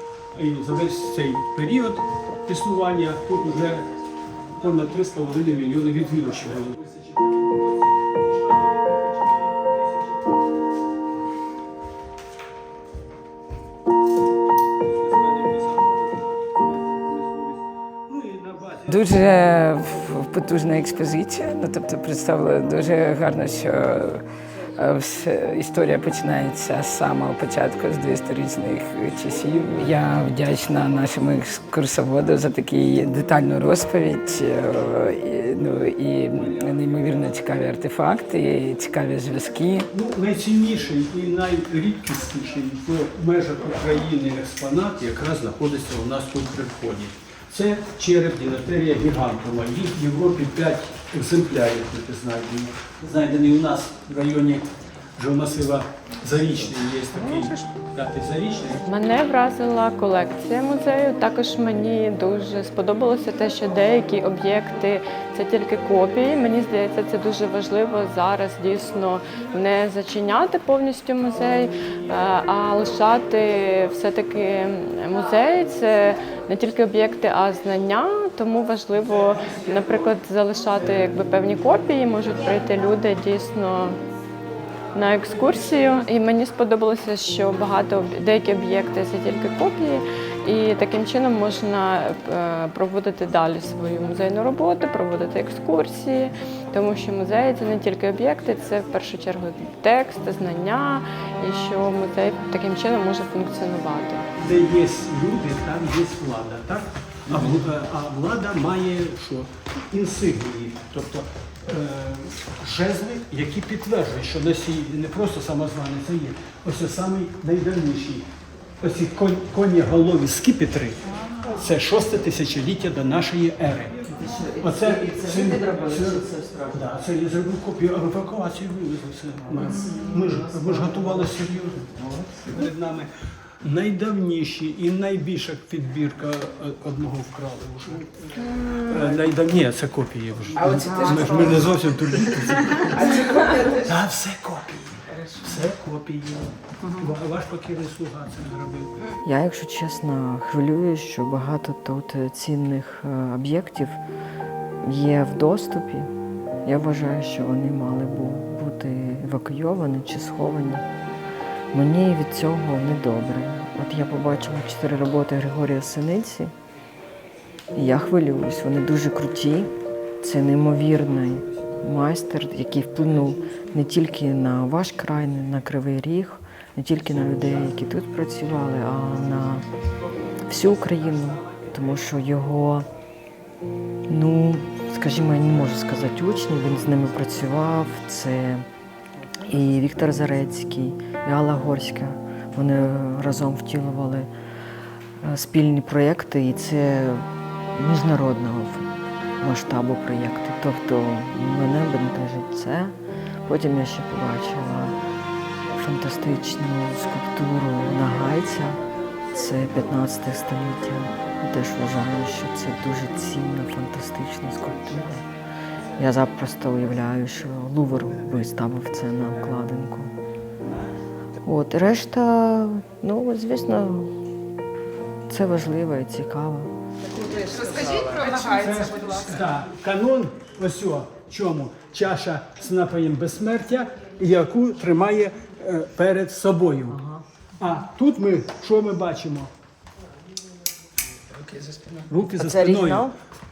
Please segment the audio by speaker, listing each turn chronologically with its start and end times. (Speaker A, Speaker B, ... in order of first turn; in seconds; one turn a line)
Speaker A: 0.3-3.9
Speaker A: 4.5-10.2
Speaker A: 14.8-19.2
Speaker B: 18.9-24.2
Speaker B: 24.8-39.9
Speaker A: 39.9-58.9
Speaker C: 58.9-84.0
Speaker C: 84.9-104.3
Speaker A: 104.4-118.3
Speaker A: 118.8-124.0
Speaker D: 124.1-126.9
Speaker A: 124.6-131.9
Speaker D: 129.6-132.6
Speaker A: 132.5-133.1
Speaker A: 133.6-148.9
Speaker C: 138.4-139.0
Speaker B: 140.6-141.4
Speaker B: 143.0-143.7
Speaker D: 149.2-154.0
Speaker D: 154.8-156.1
Speaker D: 156.7-160.8
Speaker D: 161.7-166.5
Speaker D: 167.8-179.7
Speaker D: 180.5-182.9
Speaker A: 180.5-182.0
Speaker D: 184.1-188.7
Speaker D: 189.5-194.3
Speaker D: 195.2-205.0
Speaker D: 205.8-208.8
Speaker D: 209.3-215.2
Speaker A: 214.7-215.2
Speaker D: 216.0-220.1
Speaker D: 221.4-224.2
Speaker D: 225.3-226.7
Speaker A: 227.6-237.0
Speaker D: 236.9-237.2
Speaker A: 237.6-239.5
Speaker B: 241.3-242.1
Speaker A: 242.1-243.1
Speaker D: 242.4-243.2